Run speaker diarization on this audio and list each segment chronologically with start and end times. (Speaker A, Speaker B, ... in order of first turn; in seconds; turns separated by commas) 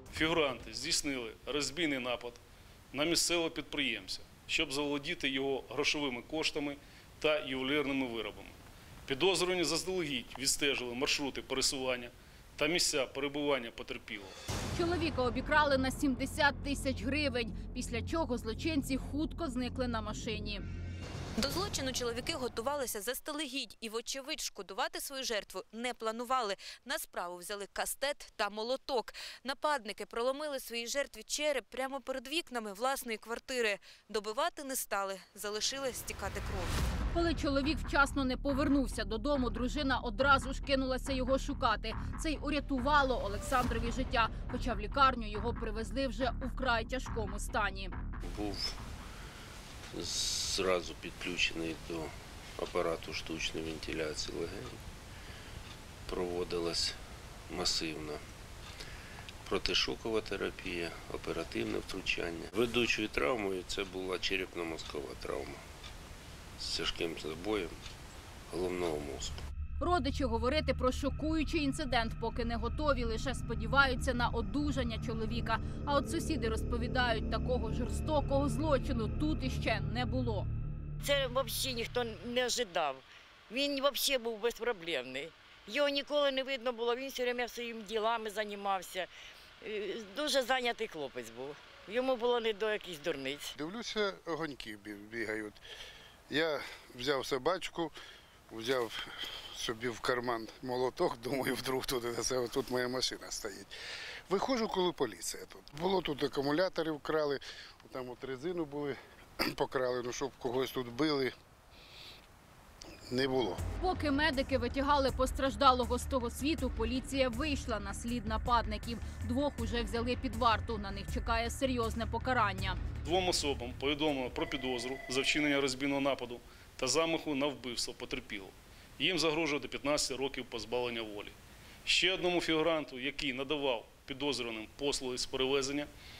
Speaker A: 0.1-2.4, Speaker A: 2.9-14.3, Speaker B: 14.7-20.6, Speaker C: 21.4-36.7, Speaker B: 37.1-47.9, Speaker D: 48.2-48.8, Speaker D: 49.9-54.8, Speaker D: 56.1-57.0, Speaker D: 57.5-58.2, Speaker D: 59.4-65.6, Speaker D: 66.6-67.8, Speaker D: 68.5-69.4, Speaker B: 69.8-80.5, Speaker E: 81.0-89.1, Speaker E: 89.6-93.5, Speaker F: 93.5-95.6, Speaker F: 96.3-97.9, Speaker F: 98.5-103.7, Speaker F: 104.3-111.3, Speaker F: 113.1-113.6, Speaker B: 113.8-122.8, Speaker A: 123.0-135.9